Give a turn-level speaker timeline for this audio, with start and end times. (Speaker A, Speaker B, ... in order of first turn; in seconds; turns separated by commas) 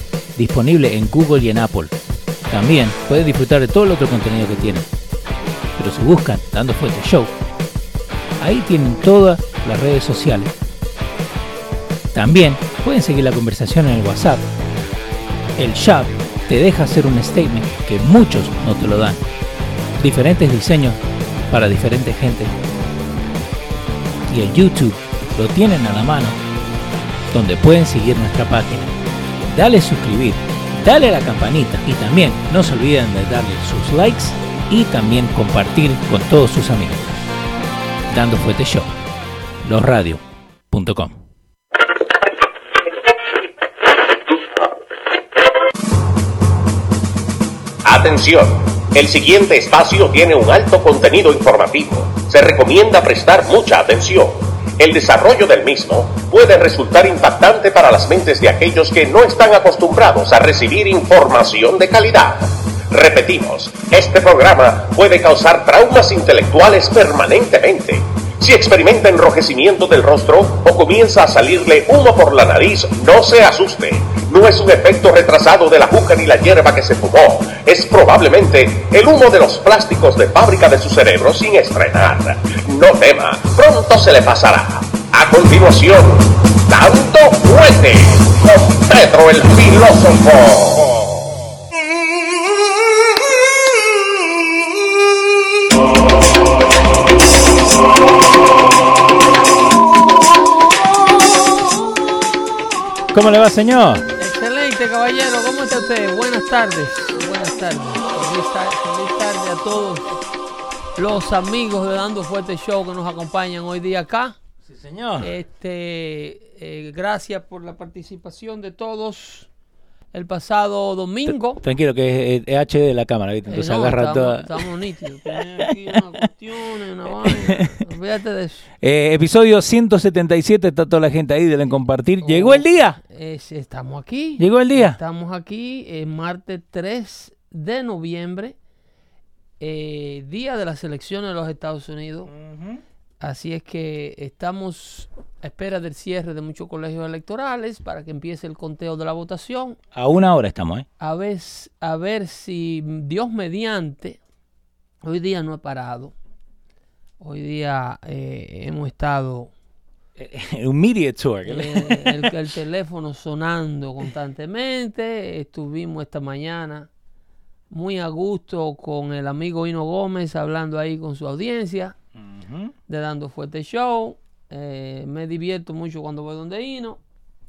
Speaker A: 0.4-1.9, Speaker A: 2.5-4.9, Speaker A: 5.8-7.3, Speaker A: 8.4-10.5, Speaker A: 12.1-14.5, Speaker A: 15.6-19.2, Speaker A: 20.0-21.0, Speaker A: 21.5-22.5, Speaker A: 24.3-26.4, Speaker A: 27.3-28.9, Speaker A: 29.5-37.1, Speaker A: 38.1-38.9, Speaker A: 39.6-41.2, Speaker B: 47.9-91.2, Speaker A: 103.1-104.1, Speaker C: 104.2-110.2, Speaker C: 111.0-114.4, Speaker A: 114.7-115.3, Speaker C: 115.2-119.5, Speaker C: 120.1-121.6, Speaker A: 121.6-124.7, Speaker C: 123.5-128.7, Speaker A: 125.2-126.0, Speaker A: 127.2-127.8, Speaker A: 128.8-133.0, Speaker C: 132.2-138.6, Speaker A: 134.4-135.0, Speaker C: 139.6-142.3, Speaker A: 142.3-142.8, Speaker C: 143.2-149.8, Speaker A: 149.9-150.9, Speaker C: 151.0-154.2, Speaker C: 155.0-156.1, Speaker C: 157.2-159.5, Speaker A: 160.2-162.3, Speaker C: 161.5-166.9, Speaker C: 167.7-171.9, Speaker A: 172.2-172.7, Speaker C: 172.9-177.0